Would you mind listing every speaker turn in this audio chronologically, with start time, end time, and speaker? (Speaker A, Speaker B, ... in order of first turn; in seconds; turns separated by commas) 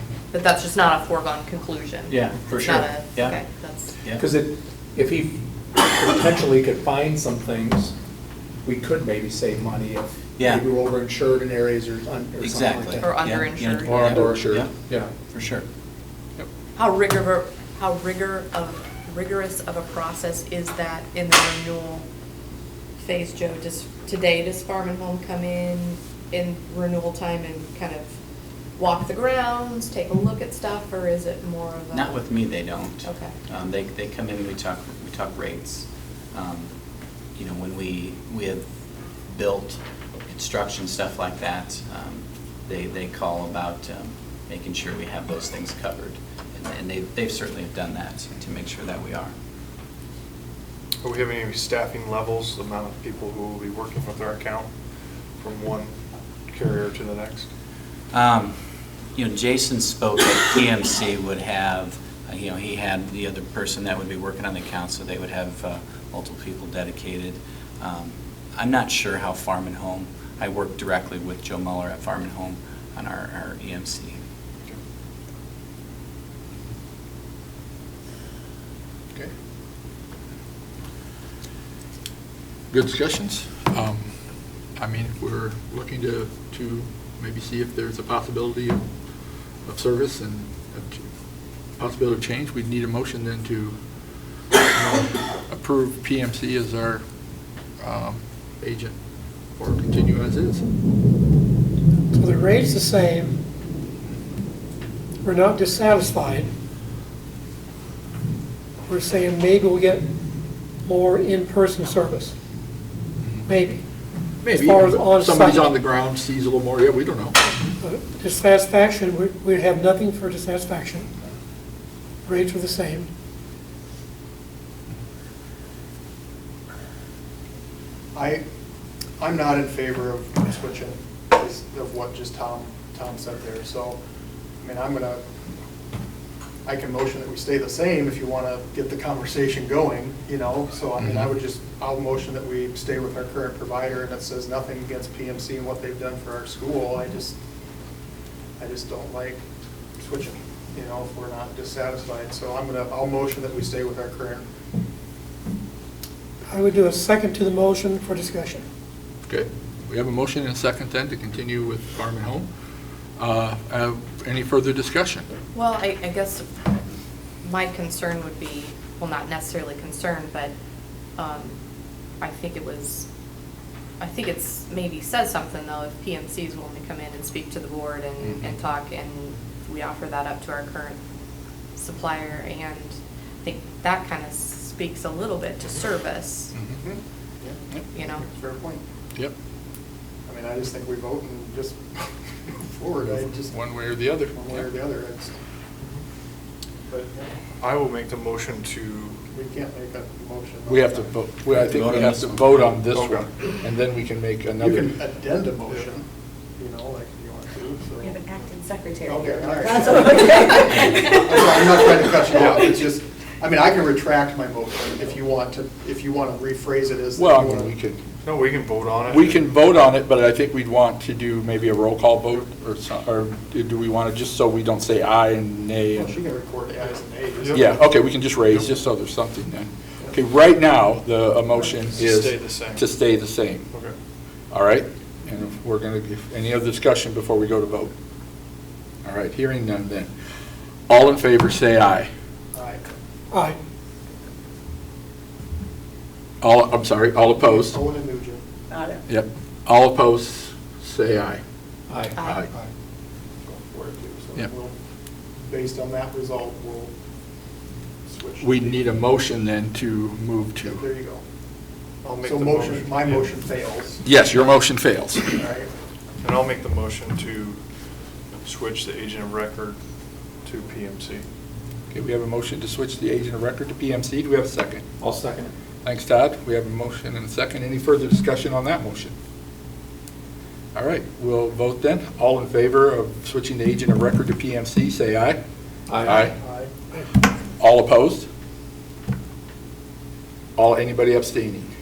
Speaker A: 0.3-4.0, Speaker B: 2.1-3.4, Speaker C: 4.2-7.9, Speaker C: 8.6-13.1, Speaker B: 10.4-10.6, Speaker B: 12.4-14.7, Speaker A: 13.0-14.0, Speaker D: 13.8-14.7, Speaker C: 14.1-15.1, Speaker B: 15.3-15.6, Speaker A: 16.8-22.1, Speaker A: 23.0-28.1, Speaker A: 28.8-32.2, Speaker B: 31.9-36.7, Speaker A: 33.0-33.3, Speaker B: 37.4-38.6, Speaker B: 39.3-49.3, Speaker E: 51.0-54.7, Speaker E: 55.4-55.9, Speaker E: 56.5-57.5, Speaker B: 58.1-58.5, Speaker B: 59.1-74.2, Speaker D: 82.7-84.1, Speaker D: 84.8-88.8, Speaker D: 89.6-91.0, Speaker D: 91.8-93.8, Speaker D: 94.6-97.0, Speaker D: 97.8-98.9, Speaker D: 99.5-100.6, Speaker F: 102.1-103.4, Speaker F: 105.2-106.5, Speaker F: 108.9-110.0, Speaker F: 110.8-112.3, Speaker F: 113.5-113.8, Speaker D: 114.4-117.4, Speaker F: 114.5-115.7, Speaker F: 117.8-121.1, Speaker F: 122.2-123.1, Speaker G: 128.1-128.4, Speaker G: 129.2-134.0, Speaker G: 134.6-135.2, Speaker G: 136.6-147.3, Speaker D: 141.0-141.3, Speaker G: 148.6-149.4, Speaker G: 150.0-154.4, Speaker F: 156.5-158.6, Speaker D: 159.3-162.5, Speaker D: 163.2-165.3, Speaker A: 165.5-166.5, Speaker A: 167.4-170.5, Speaker A: 171.2-171.6, Speaker A: 172.2-173.1, Speaker A: 174.0-181.0, Speaker A: 181.8-186.5, Speaker D: 186.5-186.8, Speaker G: 186.8-187.6, Speaker A: 187.9-188.2, Speaker G: 188.2-188.8, Speaker G: 190.3-193.5, Speaker D: 193.0-194.7, Speaker G: 194.3-195.3, Speaker G: 196.9-197.3, Speaker E: 197.6-199.2, Speaker G: 199.3-201.1, Speaker D: 200.7-204.9, Speaker B: 201.6-202.7, Speaker E: 202.9-203.3, Speaker G: 204.6-206.1, Speaker G: 206.6-208.2, Speaker H: 208.0-211.0, Speaker G: 209.0-217.7, Speaker E: 212.2-212.8, Speaker D: 217.2-218.0, Speaker E: 218.2-219.5, Speaker D: 219.1-226.2, Speaker G: 225.9-227.6, Speaker E: 227.4-227.7, Speaker D: 227.5-233.7, Speaker E: 231.6-232.8, Speaker D: 234.5-237.9, Speaker D: 239.0-240.1, Speaker D: 240.9-242.1, Speaker G: 242.5-242.8, Speaker F: 243.3-243.6, Speaker D: 246.4-247.8, Speaker G: 247.4-248.4, Speaker H: 248.7-249.0, Speaker D: 249.1-251.4, Speaker C: 251.9-252.2, Speaker D: 252.2-252.5, Speaker G: 253.4-254.8, Speaker G: 255.5-256.9, Speaker G: 258.1-258.9, Speaker D: 258.4-260.8, Speaker G: 260.6-261.2, Speaker E: 262.0-263.3, Speaker G: 262.2-264.0, Speaker D: 264.0-265.3, Speaker G: 265.3-265.7, Speaker E: 266.2-267.6, Speaker E: 268.4-269.8, Speaker E: 270.4-271.2, Speaker D: 271.9-274.8, Speaker C: 275.0-275.5, Speaker D: 275.8-279.1, Speaker D: 280.7-285.4, Speaker C: 285.9-286.2, Speaker D: 286.1-286.3, Speaker G: 286.1-286.7, Speaker D: 287.6-288.3, Speaker D: 290.6-291.7